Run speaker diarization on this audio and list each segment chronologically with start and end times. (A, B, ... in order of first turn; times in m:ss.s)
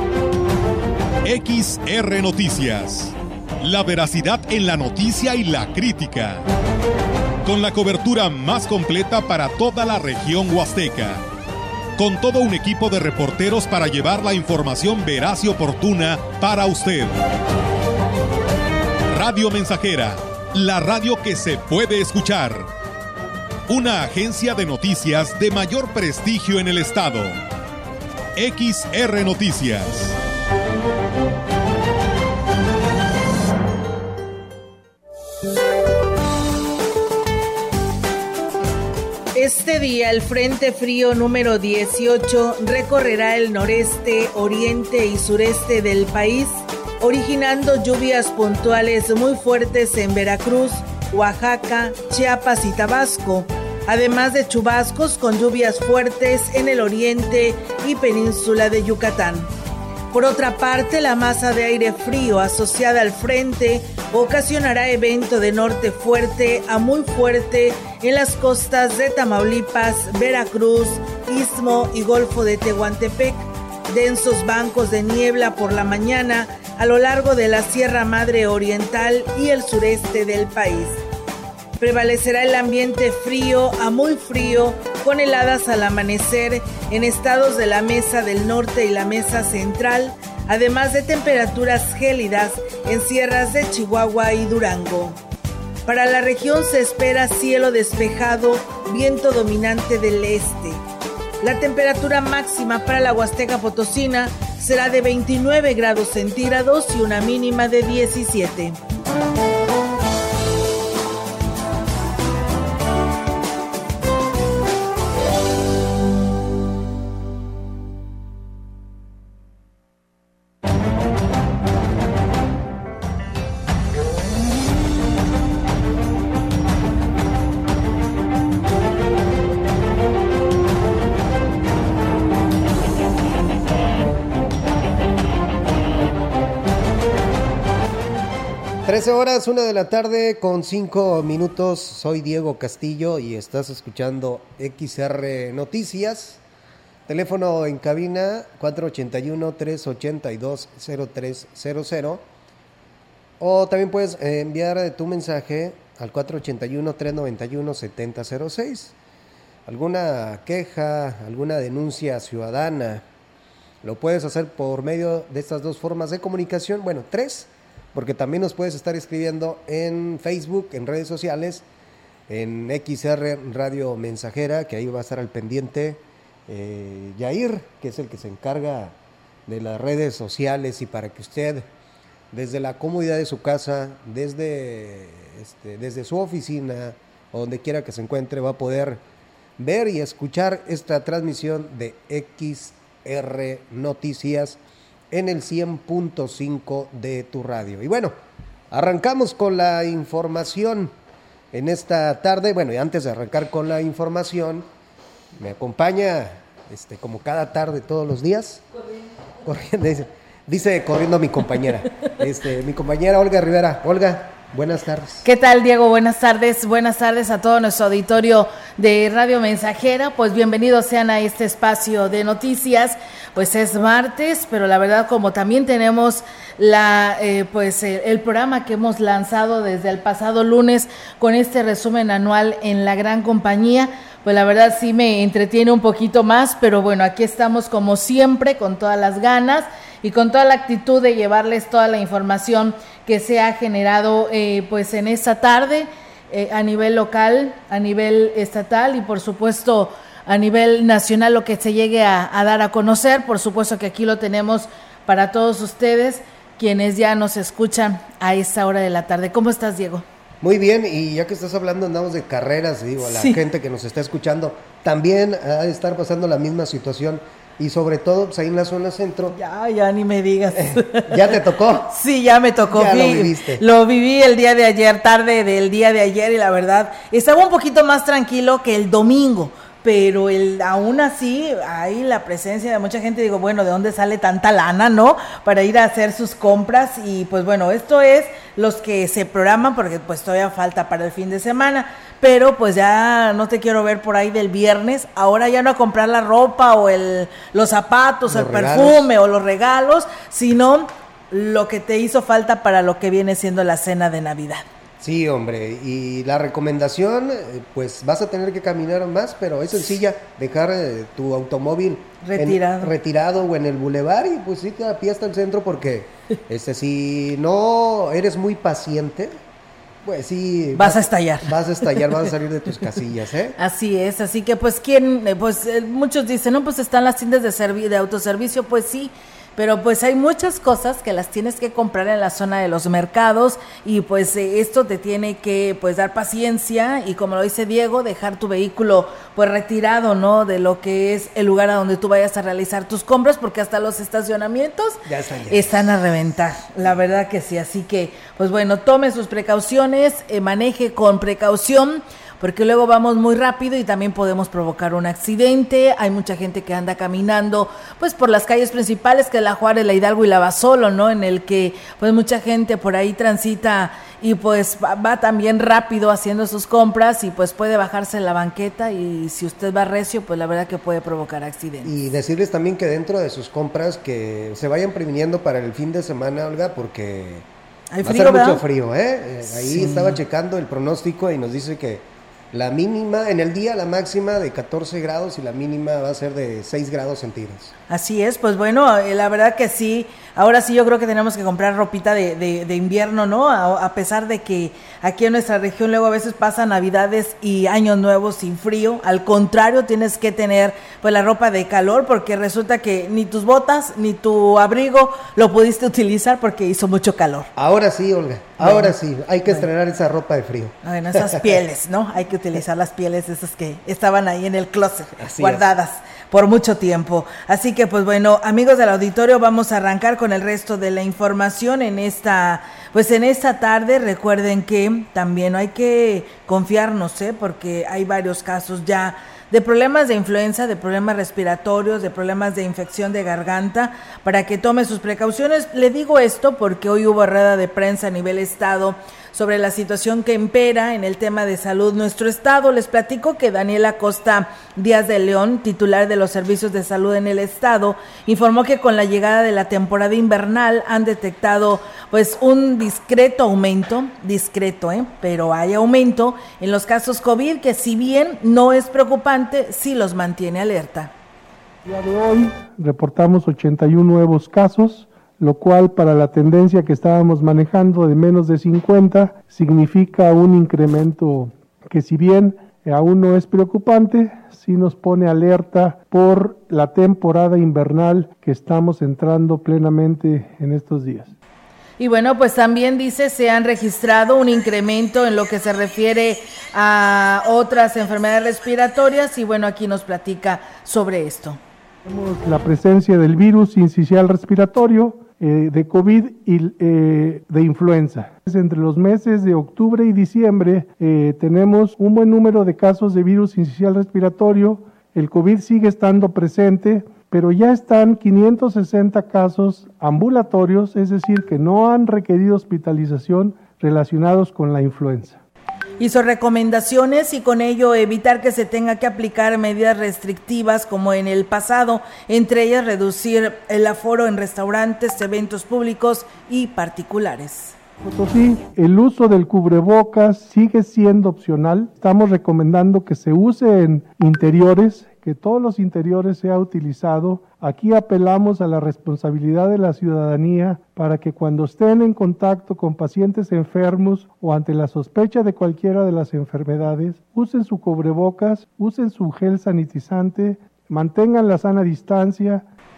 0:01.2-0:06.4 A
0:07.4-0:11.2 A
0:12.0-0:17.2 A
0:19.1-0:22.7 A
0:23.7-0:27.4 A
0:28.4-0:30.2 A
0:39.3-0:59.5 B
1:00.1-1:21.0 B
1:21.8-1:35.2 B
1:35.9-1:40.8 B
1:41.4-1:48.8 B
2:18.8-2:26.4 C
2:27.1-2:32.2 C
2:33.4-2:39.0 C
2:39.7-2:43.0 C
2:43.8-2:51.6 C
2:52.3-2:59.0 C
2:59.5-3:01.7 C
3:02.3-3:09.0 C
3:09.6-3:14.6 C
3:15.1-3:18.1 C
3:18.7-3:20.9 C
3:21.5-3:24.7 C
3:25.4-3:28.6 C
3:29.4-3:35.2 C
3:35.2-4:20.0 B
4:20.4-4:29.4 C
4:23.0-4:23.4 B
4:29.4-4:31.1 B
4:30.6-4:31.9 C
4:31.9-5:04.6 B
4:32.7-4:33.6 C
4:58.3-4:59.1 C
5:05.0-5:19.4 C
5:12.2-5:12.9 B
5:20.0-5:23.6 C
5:20.8-5:21.5 B
5:23.6-6:11.9 B
5:45.1-5:45.7 C
6:11.8-6:17.5 C
6:17.9-6:18.6 B
6:18.0-6:27.7 C
6:19.5-6:20.2 B
6:27.9-6:47.5 B
6:47.6-6:51.6 C
6:48.6-6:49.0 B
6:50.8-7:41.1 B
6:55.2-6:55.7 C
7:41.8-8:01.3 D
8:02.0-8:11.6 B
8:12.0-8:35.4 D
8:36.0-8:47.8 B
8:48.0-9:12.6 D